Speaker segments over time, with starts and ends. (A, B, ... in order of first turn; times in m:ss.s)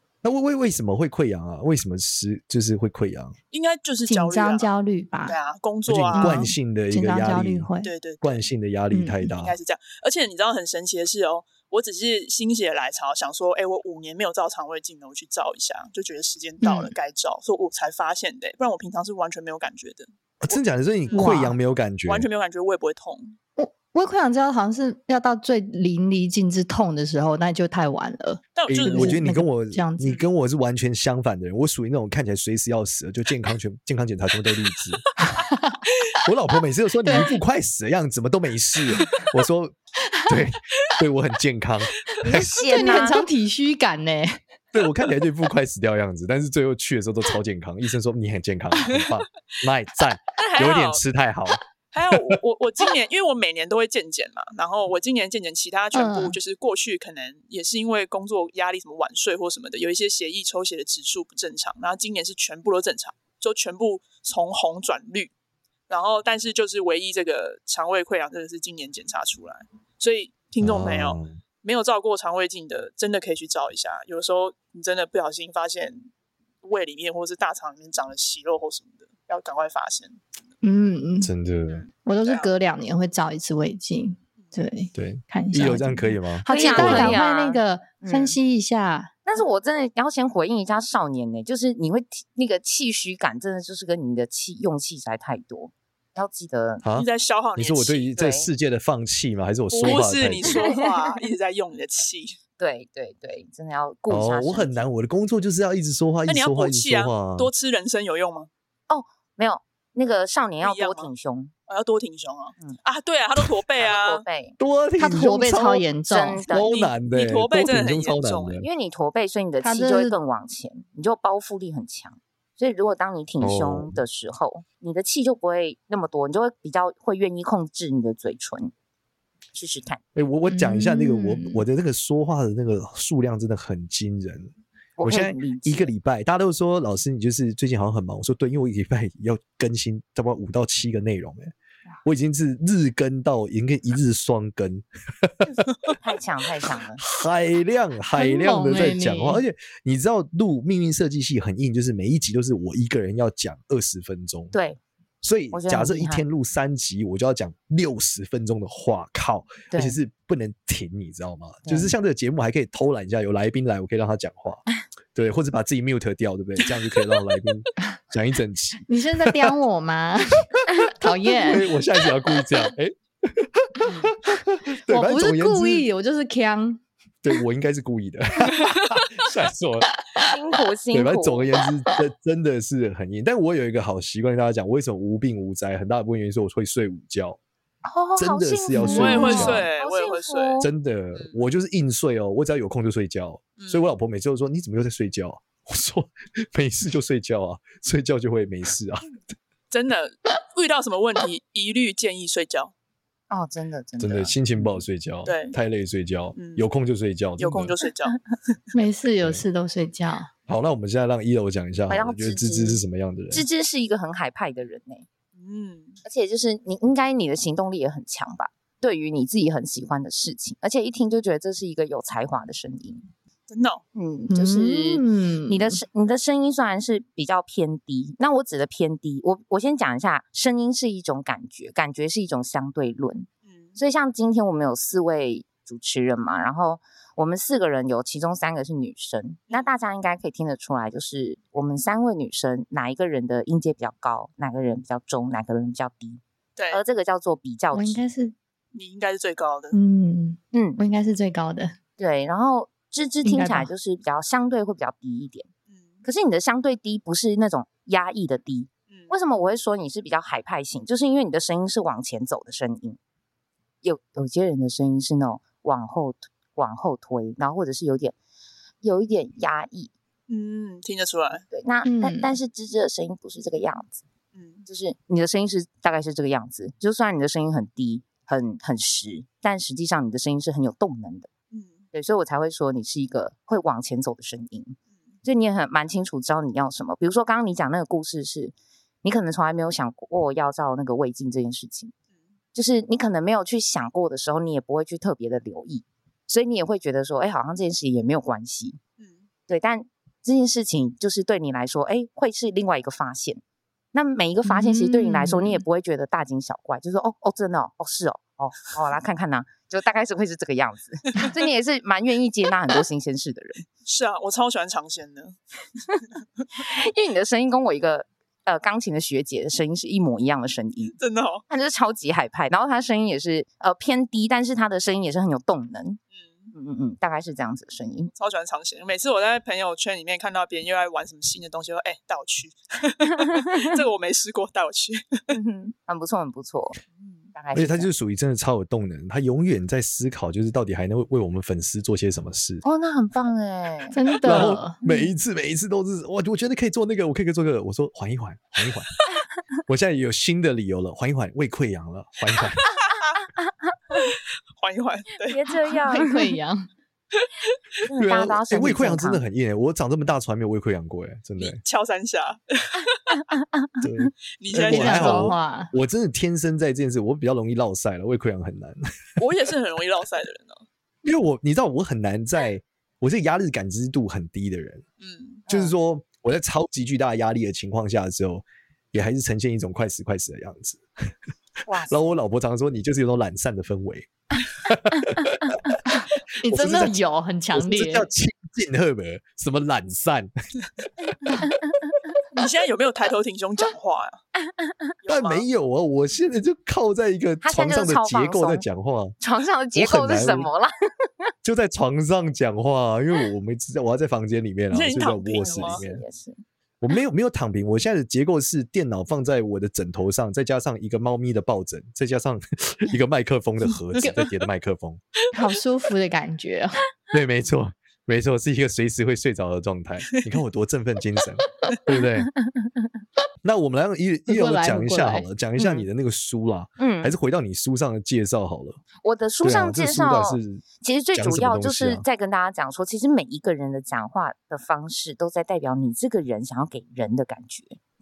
0:00.2-0:03.3 A
0:03.5-0:04.7 B
0:04.0-0:05.4 C
0:05.2-0:06.4 B
0:05.9-0:07.7 A
0:06.1-0:07.9 C
0:07.8-0:08.4 B
0:08.2-0:09.6 A
0:08.9-0:09.3 C
0:09.3-0:20.1 B
0:16.6-0:16.9 C
0:20.4-0:22.3 A
0:21.0-0:21.4 B
0:21.1-0:21.6 C
0:22.0-0:23.4 B
0:23.6-0:30.2 C
0:28.5-0:29.2 B
0:28.7-0:35.0 A
0:35.3-0:35.8 C
0:36.2-0:39.7 A
0:37.0-0:37.4 C
0:40.2-0:42.6 A
0:42.2-0:43.2 D
0:42.7-0:44.4 C
0:44.7-0:51.6 A
0:48.9-0:49.2 B
0:50.4-0:51.0 B
0:51.9-1:05.3 B
0:55.9-0:56.4 C
1:05.9-1:16.1 B
1:10.6-1:11.4 A
1:16.6-1:20.2 B
1:20.6-1:21.3 C
1:21.2-1:21.8 A
1:21.7-1:22.5 B
1:22.0-1:29.1 C
1:24.9-1:27.2 A
1:26.5-1:28.4 D
1:29.2-1:36.8 D
1:36.8-1:40.6 A
1:36.9-1:38.1 B
1:38.2-1:38.5 D
1:39.7-1:42.3 B
1:39.8-1:40.8 D
1:42.6-1:44.8 D
1:44.1-1:47.5 A
1:46.3-1:48.5 B
1:48.9-1:51.5 D
1:50.6-1:51.1 B
1:51.7-1:54.2 B
1:53.8-1:54.6 D
1:54.6-1:55.9 A
1:55.0-1:56.4 C
1:56.1-1:56.9 D
1:56.5-1:58.7 A
1:57.0-1:58.6 B
1:58.6-2:08.7 D
1:59.6-2:00.2 C
2:03.4-2:04.0 A
2:09.5-2:10.0 D
2:10.1-2:21.5 A
2:10.5-2:11.6 C
2:15.0-2:15.9 D
2:22.0-2:25.4 A
2:26.0-2:27.0 D
2:27.0-2:34.5 A
2:28.2-2:29.4 C
2:34.5-2:34.8 D
2:35.2-2:49.5 A
2:35.5-2:36.2 D
2:41.6-2:41.9 D
2:48.9-2:51.7 C
2:51.4-2:55.8 A
2:54.8-2:56.8 C
2:57.2-2:59.9 A
3:00.2-3:01.5 D
3:00.9-3:07.4 A
3:07.8-3:10.7 D
3:08.2-3:09.7 A
3:08.8-3:09.5 C
3:08.8-3:11.4 B
3:10.6-3:19.1 A
3:13.6-3:13.8 B
3:19.7-3:22.7 B
3:23.3-3:24.8 D
3:24.0-3:27.7 A
3:25.2-3:25.6 B
3:26.3-3:26.7 B
3:27.4-3:28.2 B
3:28.7-3:30.3 C
3:30.5-3:33.4 A
3:31.9-3:32.8 D
3:33.3-3:35.0 D
3:35.4-3:36.0 B
3:36.0-3:43.0 D
3:43.5-3:43.8 B
3:43.9-4:08.0 D
3:44.3-3:45.8 C
3:53.4-3:53.8 B
3:59.5-3:59.7 B
4:06.6-4:06.8 B
4:07.7-4:08.3 C
4:08.7-4:09.8 B
4:09.7-4:11.8 C
4:10.5-4:10.8 D
4:12.0-4:15.5 D
4:13.2-4:13.7 C
4:15.7-4:16.0 B
4:16.0-4:23.0 D
4:18.9-4:19.1 B
4:23.8-4:28.2 D
4:28.8-4:29.9 D
4:30.3-4:31.4 B
4:31.5-4:34.0 D
4:31.8-4:32.3 C
4:34.3-4:34.6 B
4:34.7-4:41.3 D
4:41.5-4:41.8 B
4:41.9-4:51.9 D
4:52.5-4:58.8 D
4:59.0-4:59.2 B
4:59.5-5:03.4 D
5:03.9-5:13.6 D
5:04.4-5:05.6 C
5:13.8-5:15.4 B
5:16.5-5:21.0 D
5:21.0-5:21.4 B
5:21.5-5:26.0 D
5:26.1-5:26.5 B
5:26.5-5:28.1 D
5:28.1-5:35.3 B
5:33.2-5:33.8 D
5:35.3-5:36.8 D
5:37.0-5:37.3 B
5:37.3-5:37.9 D
5:37.5-5:42.6 A
5:42.6-5:44.0 D
5:43.9-5:44.8 C
5:44.2-5:48.9 A
5:44.8-5:45.1 D
5:49.7-5:52.7 A
5:53.9-5:55.7 B
5:55.3-5:56.2 D
5:55.9-5:56.7 C
5:57.2-5:57.5 B
5:57.8-5:59.2 D
5:58.0-6:01.6 A
6:01.4-6:03.2 B
6:03.8-6:08.8 A
6:04.4-6:05.3 B
6:04.7-6:05.7 C
6:09.2-6:10.6 B
6:11.0-6:14.8 A
6:15.0-6:15.4 B
6:15.5-6:15.7 D
6:15.5-6:20.8 A
6:21.6-6:22.1 D
6:21.8-6:25.8 A
6:26.4-6:28.1 C
6:26.5-6:27.0 A
6:27.5-6:30.3 A
6:31.4-6:31.6 D
6:32.3-6:34.2 B
6:35.0-6:35.4 B
6:35.1-6:39.1 A
6:37.4-6:38.6 D
6:39.2-6:41.3 D
6:39.7-6:40.5 A
6:41.4-6:46.0 A
6:44.7-6:45.8 B
6:45.4-6:46.4 D
6:46.8-6:55.0 A
6:54.0-6:54.3 B
6:55.3-6:56.8 C
6:57.1-7:02.3 A
7:03.4-7:08.8 A
7:04.3-7:05.3 C
7:05.6-7:05.8 D
7:06.8-7:07.1 D
7:09.0-7:17.8 D
7:09.4-7:12.0 A